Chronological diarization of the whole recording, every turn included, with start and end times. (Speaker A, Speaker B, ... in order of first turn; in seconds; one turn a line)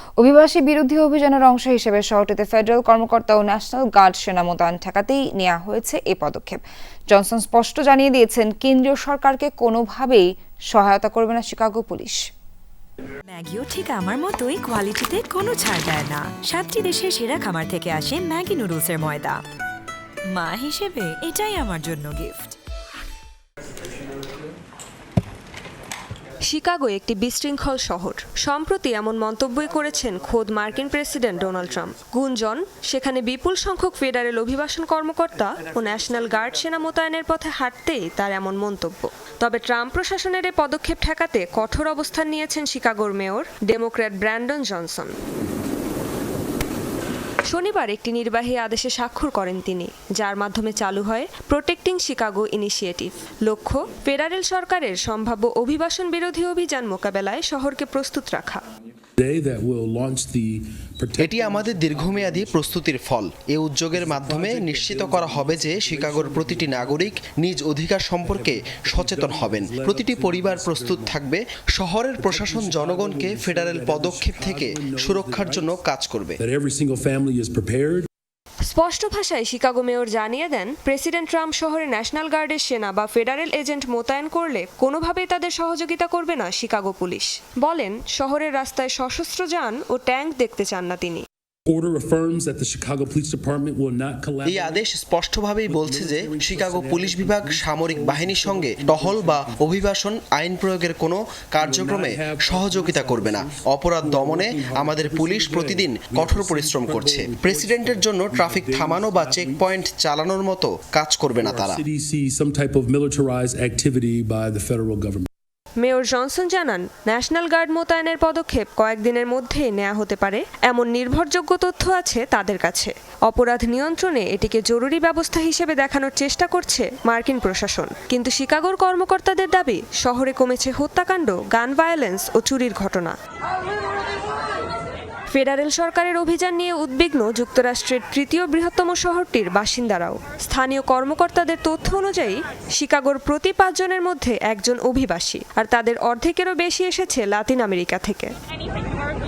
Speaker A: 0.2-12.2
Speaker B: 13.3-19.4
Speaker B: 20.3-22.5
Speaker C: 26.5-45.1
Speaker C: 47.5-58.6
Speaker D: 59.2-62.8
Speaker E: 61.2-76.4
Speaker D: 63.9-67.1
Speaker D: 68.2-71.2
Speaker D: 72.2-75.8
Speaker D: 76.4-78.1
Speaker C: 78.7-91.2
Speaker D: 91.7-94.8
Speaker E: 94.5-111.8
Speaker D: 95.7-99.7
Speaker D: 101.6-109.7
Speaker D: 111.3-115.3
Speaker C: 115.8-133.2
Speaker C: 135.3-148.3